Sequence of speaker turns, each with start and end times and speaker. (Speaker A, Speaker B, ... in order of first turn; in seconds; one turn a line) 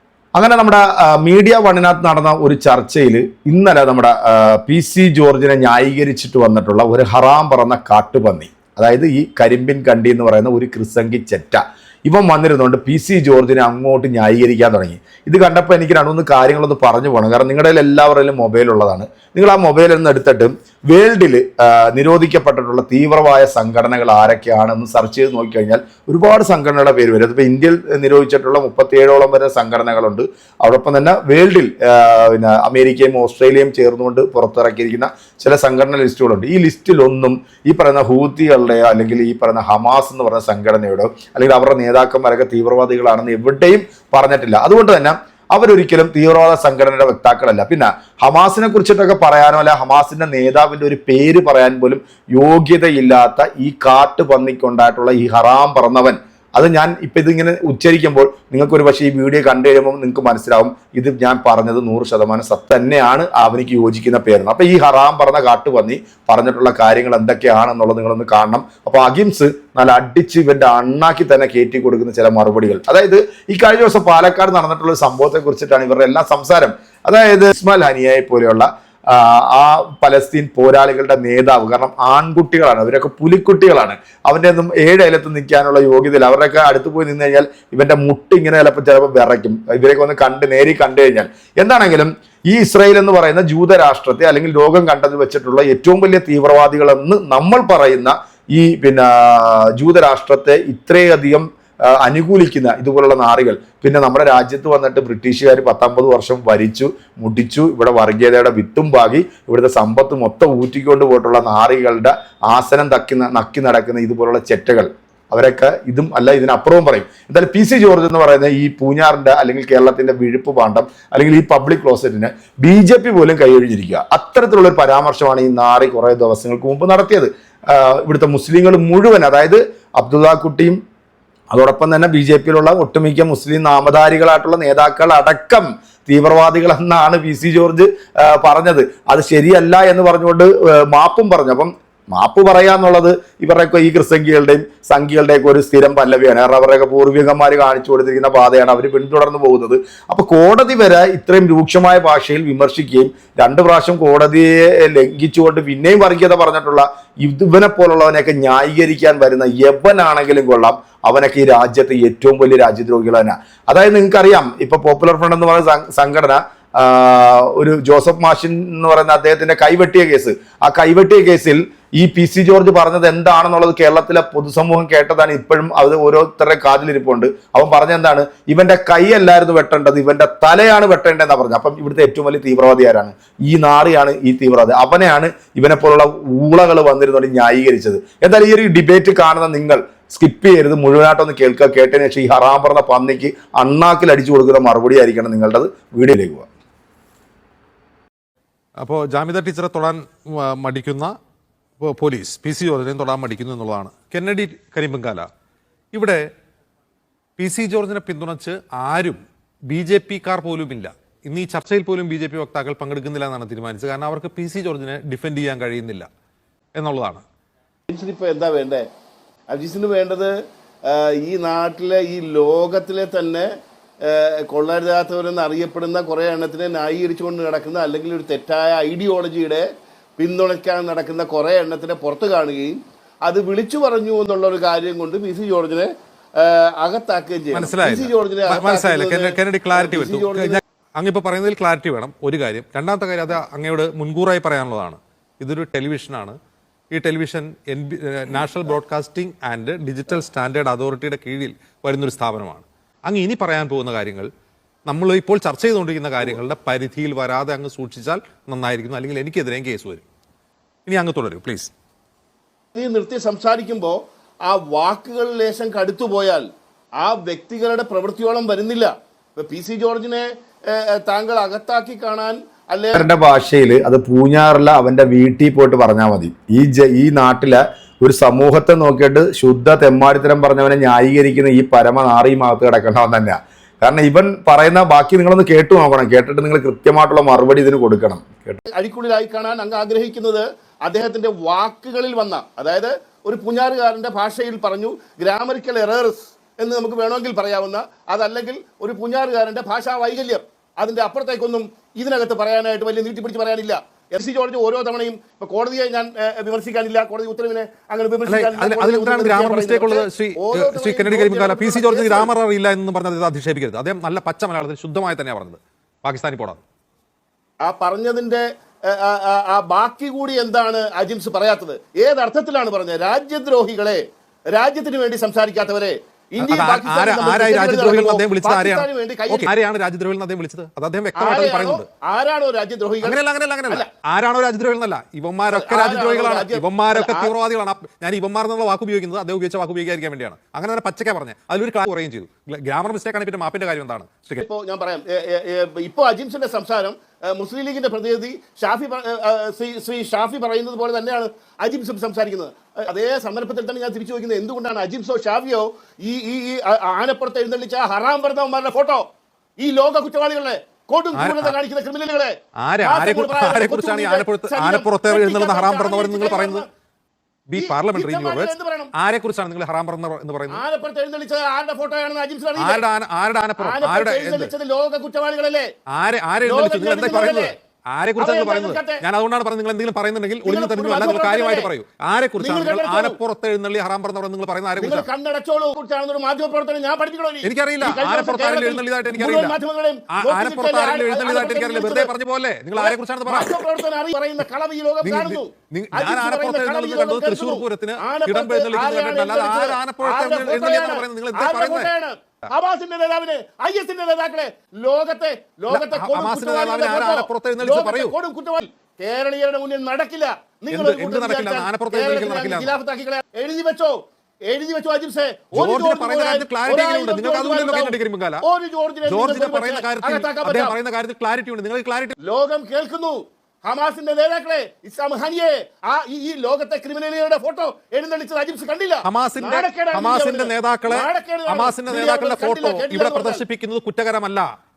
Speaker A: 0.3-130.8
Speaker A: 131.5-196.5
Speaker B: 198.8-201.1
Speaker B: 201.8-205.3
Speaker B: 205.9-206.2
Speaker B: 207.4-216.1
Speaker B: 216.8-217.2
Speaker C: 217.9-218.8
Speaker C: 219.5-223.5
Speaker C: 224.0-229.7
Speaker C: 230.2-240.6
Speaker B: 237.5-246.4
Speaker B: 246.9-254.3
Speaker B: 254.9-260.0
Speaker B: 260.9-261.7
Speaker C: 262.8-266.5
Speaker C: 267.0-273.1
Speaker A: 272.9-288.6
Speaker C: 288.7-312.3
Speaker B: 308.3-316.6
Speaker C: 317.6-329.5
Speaker B: 326.4-331.9
Speaker C: 331.1-333.2
Speaker B: 333.0-344.5
Speaker C: 335.5-337.3
Speaker C: 344.4-359.1
Speaker C: 359.6-366.7
Speaker B: 361.1-361.6
Speaker B: 362.6-366.6
Speaker B: 367.5-370.6
Speaker C: 367.6-368.9
Speaker C: 370.5-372.8
Speaker B: 372.6-374.5
Speaker C: 373.6-375.7
Speaker B: 375.9-385.1
Speaker C: 376.4-377.6
Speaker C: 378.2-379.0
Speaker C: 380.4-381.7
Speaker C: 382.4-383.2
Speaker C: 384.8-392.1
Speaker B: 387.4-389.6
Speaker B: 390.1-393.8
Speaker C: 392.8-420.8
Speaker B: 395.0-401.9
Speaker B: 405.7-408.1
Speaker B: 410.7-412.7
Speaker B: 415.5-418.4
Speaker B: 419.1-422.2
Speaker C: 422.2-433.4
Speaker B: 429.1-434.5